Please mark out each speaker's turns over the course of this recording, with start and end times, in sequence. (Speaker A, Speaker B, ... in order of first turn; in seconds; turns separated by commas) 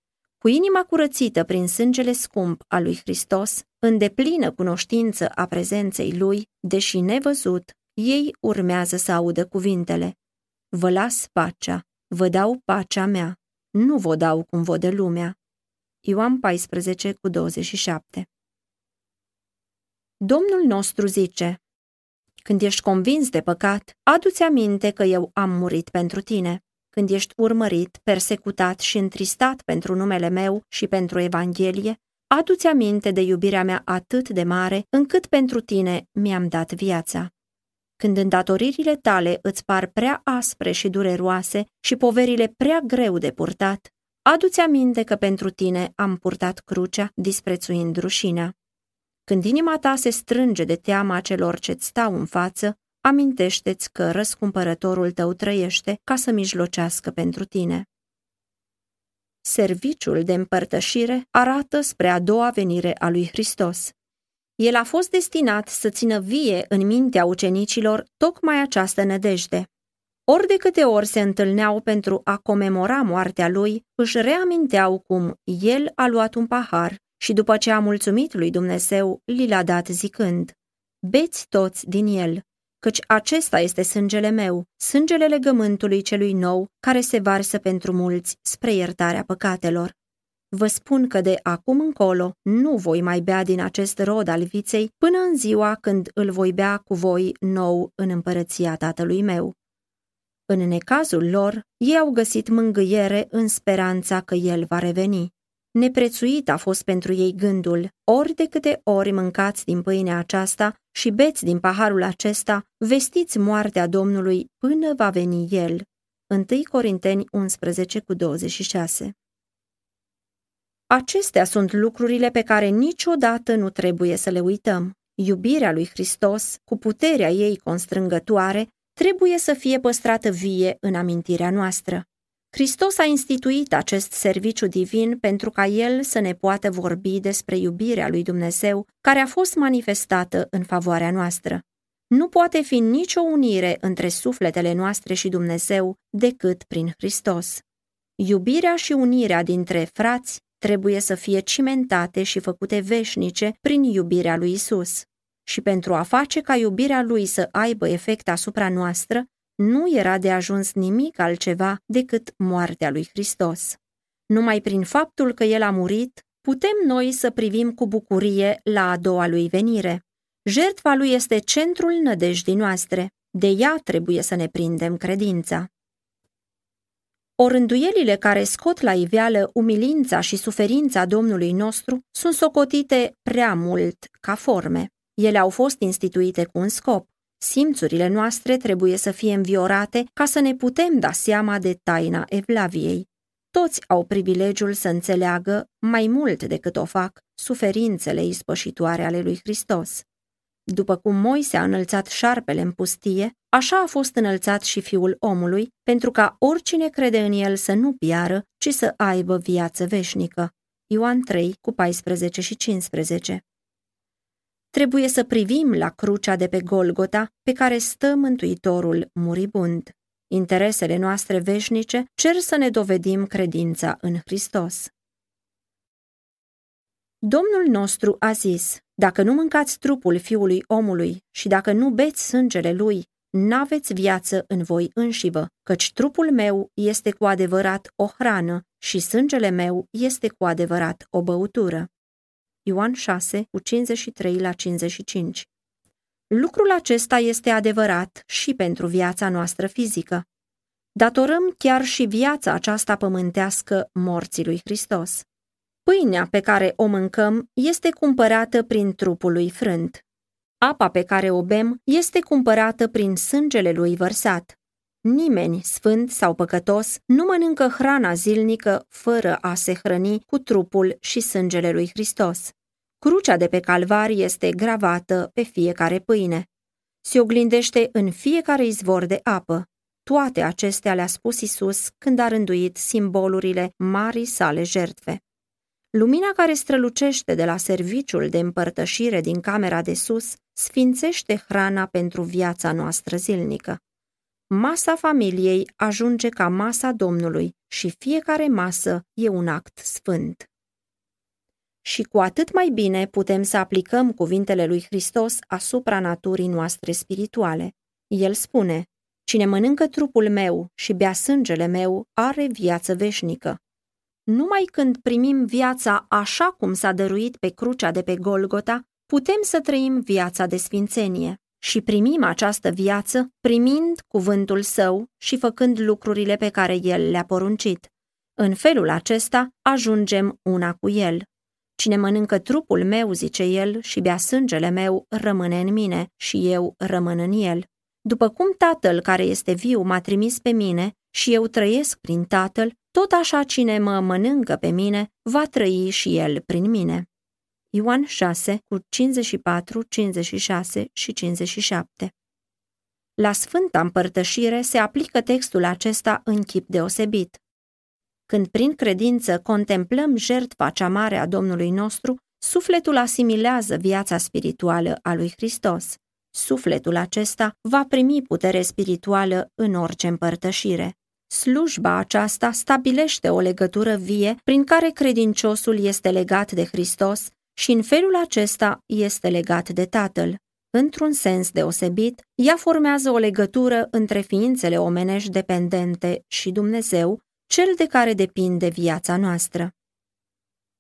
Speaker A: 0.4-10.2, Speaker A: 10.7-15.3, Speaker A: 16.0-18.3, Speaker A: 20.2-21.6, Speaker A: 22.4-37.3, Speaker A: 38.0-48.5, Speaker A: 49.2-57.9, Speaker A: 59.4-63.9, Speaker A: 64.6-69.7, Speaker A: 70.3-89.9, Speaker A: 90.5-99.5, Speaker A: 100.5-119.1, Speaker A: 120.9-147.6, Speaker A: 148.2-163.8, Speaker A: 164.3-175.7, Speaker A: 177.4-200.0, Speaker A: 200.7-213.4, Speaker A: 214.7-224.9, Speaker A: 227.2-241.9, Speaker A: 242.6-245.5, Speaker A: 246.3-250.2, Speaker A: 250.9-255.2, Speaker A: 255.8-260.0, Speaker A: 260.6-276.5, Speaker A: 277.0-285.2, Speaker A: 285.9-293.8, Speaker A: 294.5-300.5, Speaker A: 301.8-313.6, Speaker A: 314.3-331.2, Speaker A: 331.8-347.1, Speaker A: 347.7-352.1, Speaker A: 353.2-357.4, Speaker A: 358.3-389.7